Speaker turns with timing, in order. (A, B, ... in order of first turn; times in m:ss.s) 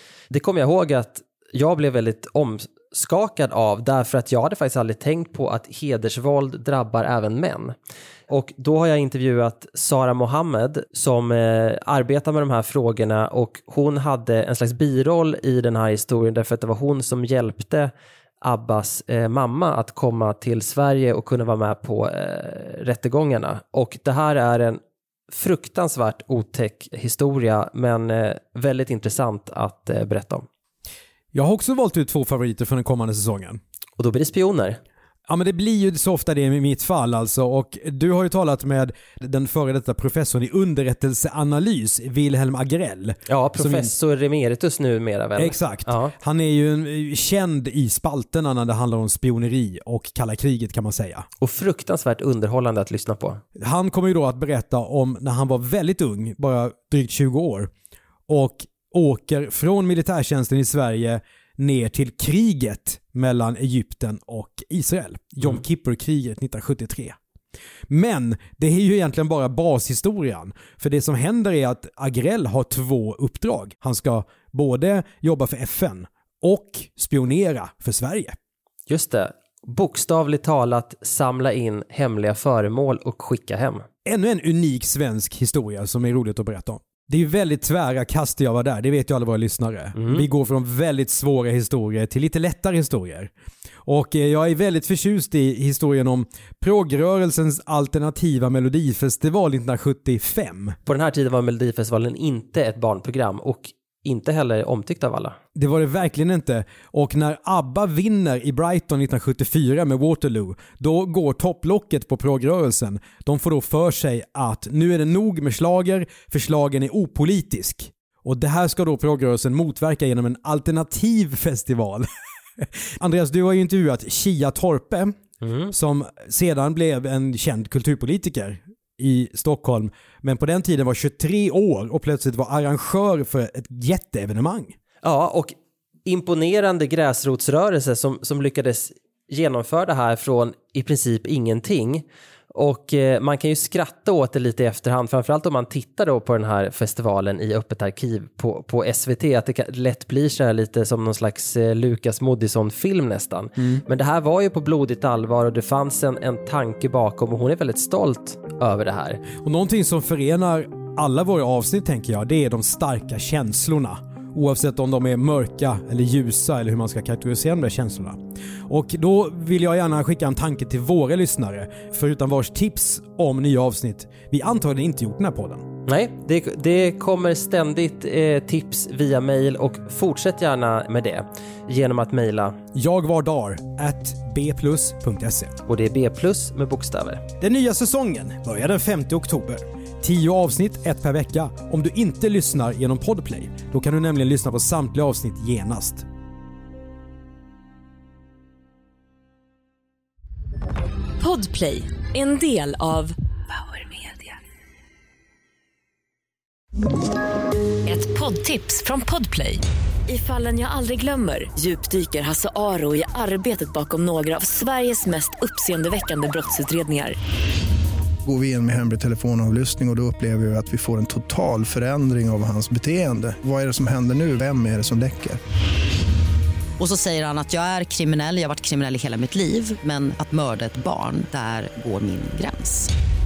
0:00.3-0:07.8 A
0:08.3-0:24.8 A
0:25.3-0:30.5 A
0:31.3-0:33.6 B
0:34.0-0:34.8 A
0:35.3-0:43.9 B
0:43.3-0:46.1 A
0:45.4-0:51.3 B
0:51.4-0:53.4 A
0:53.6-0:57.7 B
0:58.3-1:07.2 B
1:07.9-1:18.4 B
1:18.9-1:23.8 A
1:24.0-1:33.3 B
1:30.0-1:30.2 A
1:33.8-1:40.8 B
1:40.9-1:45.4 A
1:45.6-2:02.1 B
2:02.6-2:05.1 B
2:05.4-2:05.7 A
2:05.7-2:14.8 B
2:15.0-2:15.5 A
2:16.1-2:39.2 A
2:39.4-2:48.2 B
2:48.7-2:55.7 B
2:55.9-3:02.6 A
3:02.8-3:05.5 B
3:05.7-3:07.2 A
3:07.4-3:16.0 B
3:21.2-3:24.3 C
3:27.8-3:37.2 C
3:38.2-3:45.4 D
3:46.8-3:52.9 E